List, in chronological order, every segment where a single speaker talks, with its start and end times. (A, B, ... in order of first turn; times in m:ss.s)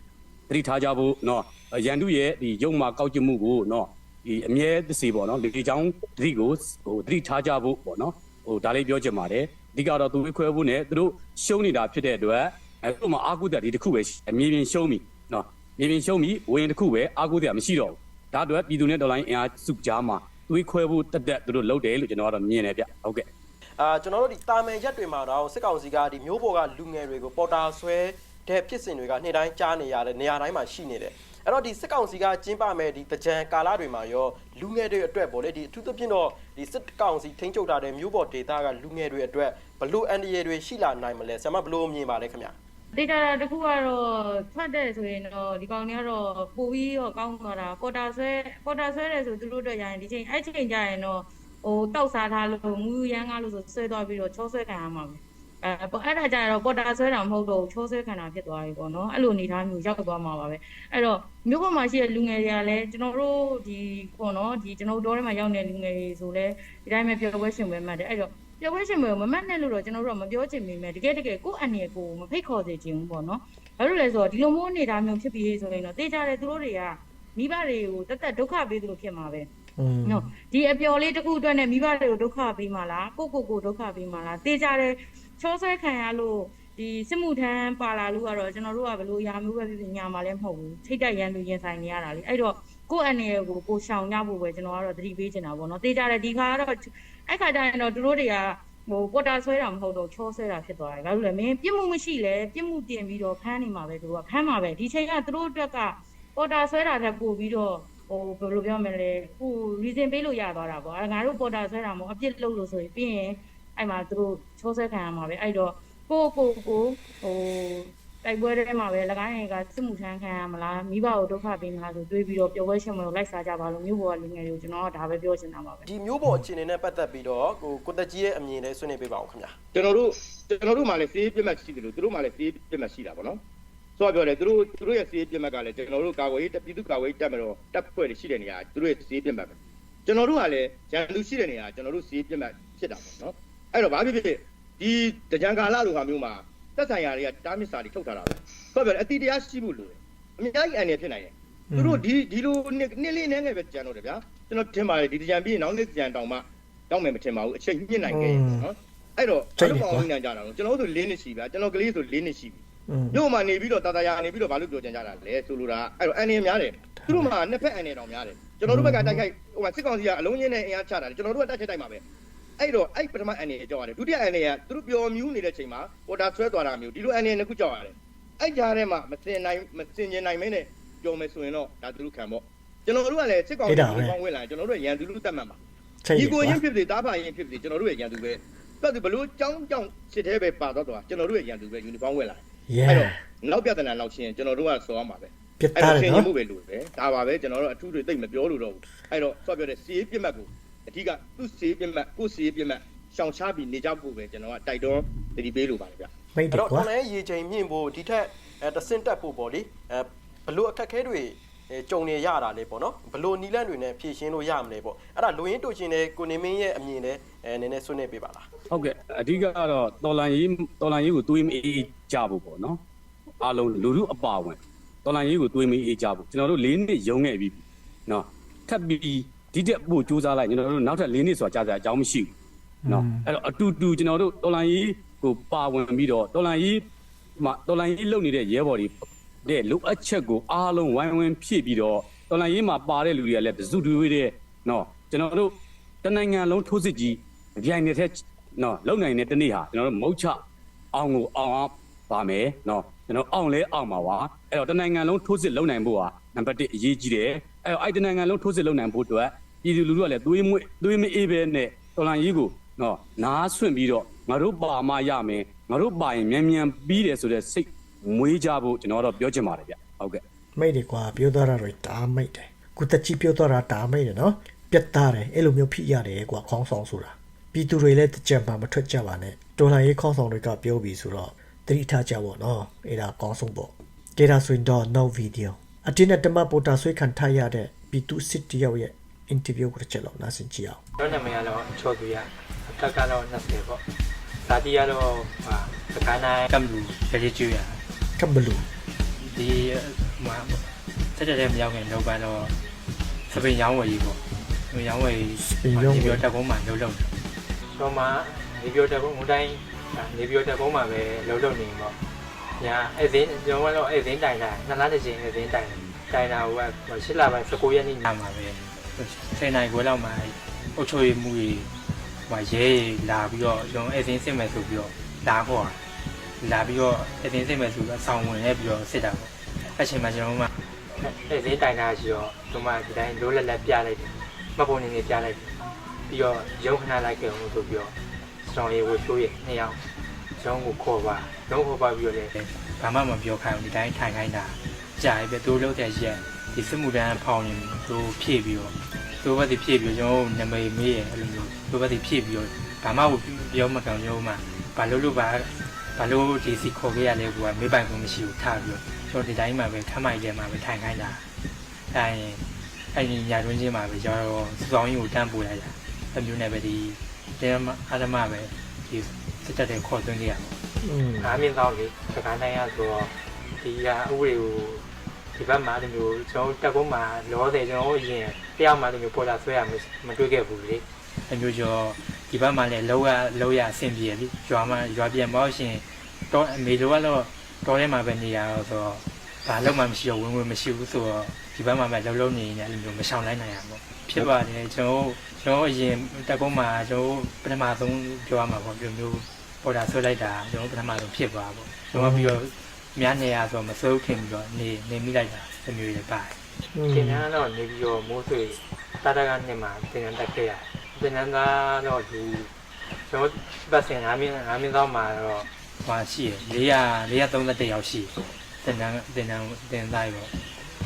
0:00.5-0:23.3 A
0:23.8-0:42.6 B
0:42.9-1:19.5 C
1:19.8-1:20.3 D
1:20.0-2:05.8 C
2:05.9-2:09.6 B
2:09.7-2:13.4 E
2:14.0-2:19.6 E
2:20.1-2:42.6 E
2:31.7-2:32.0 D
2:38.0-2:38.7 D
2:39.6-2:40.1 D
2:42.9-2:43.2 D
2:43.1-2:52.0 E
2:47.0-2:47.3 D
2:48.7-2:49.2 D
2:52.6-3:05.6 E
3:03.7-3:04.2 D
3:06.0-3:06.6 D
3:06.1-3:26.1 E
3:12.7-3:13.2 D
3:15.6-3:16.3 D
3:26.3-3:26.9 D
3:26.5-3:38.5 B
3:38.7-3:42.8 A
3:43.4-3:52.3 A
3:52.8-3:53.3 D
3:52.9-3:56.8 A
3:57.4-4:10.4 A
4:10.9-4:30.2 A
4:30.6-4:50.8 D
4:51.0-4:53.8 F
4:54.4-4:57.8 F
4:58.2-4:58.7 D
4:59.2-5:00.6 F
5:01.1-5:02.6 F
5:03.3-5:07.1 F
5:05.4-5:06.2 D
5:07.7-5:12.0 F
5:12.6-5:21.7 F
5:22.3-5:25.8 F
5:26.4-5:35.6 F
5:36.1-5:39.8 F
5:40.4-6:01.2 F
6:01.9-6:02.4 F
6:02.9-6:10.6 F
6:10.8-6:11.4 D
6:11.2-6:46.4 F
6:41.9-6:42.4 D
6:46.7-6:47.2 D
6:46.9-6:52.5 F
6:53.1-7:00.4 F